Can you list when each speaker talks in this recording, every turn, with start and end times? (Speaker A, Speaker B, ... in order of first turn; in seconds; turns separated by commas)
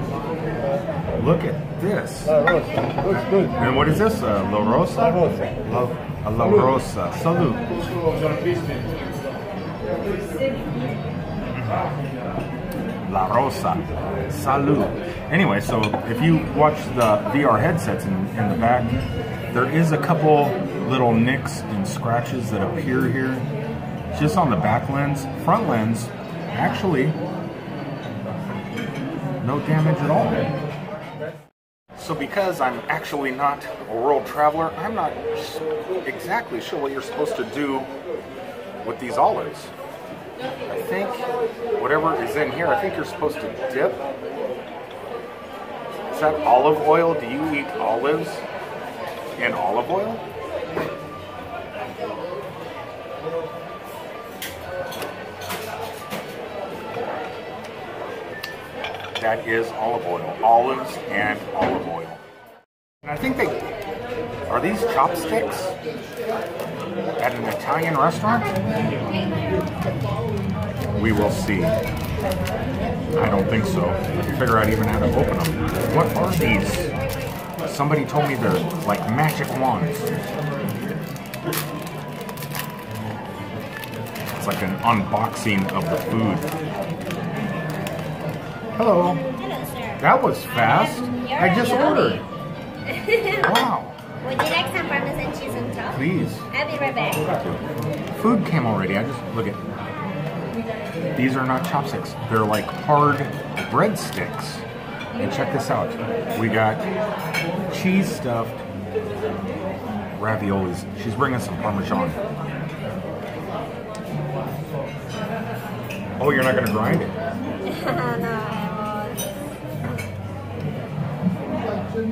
Speaker A: 1.2-2.4, Speaker B: 2.3-3.6, Speaker A: 3.5-7.7, Speaker B: 5.0-5.5, Speaker B: 8.2-8.7, Speaker A: 11.5-11.8, Speaker A: 13.0-19.0, Speaker A: 19.5-23.4, Speaker A: 24.1-27.2, Speaker A: 29.4-30.5, Speaker A: 31.9-37.9, Speaker A: 38.8-39.7, Speaker A: 40.7-44.0, Speaker A: 46.1-48.4, Speaker A: 49.4-50.2, Speaker A: 59.2-62.2, Speaker A: 63.0-63.7, Speaker A: 64.5-65.8, Speaker A: 67.2-68.5, Speaker C: 69.1-69.6, Speaker A: 70.9-71.8, Speaker A: 73.2-76.9, Speaker A: 77.6-80.1, Speaker A: 84.3-86.5, Speaker A: 88.8-89.2, Speaker C: 89.0-90.0, Speaker A: 90.0-92.2, Speaker C: 90.7-92.2, Speaker C: 92.9-93.6, Speaker A: 93.4-94.0, Speaker C: 94.2-97.2, Speaker A: 95.9-96.5, Speaker A: 97.2-97.6, Speaker A: 98.1-99.6, Speaker A: 101.1-106.9, Speaker A: 107.7-108.6, Speaker A: 110.1-112.2, Speaker A: 116.2-117.2, Speaker C: 117.7-119.3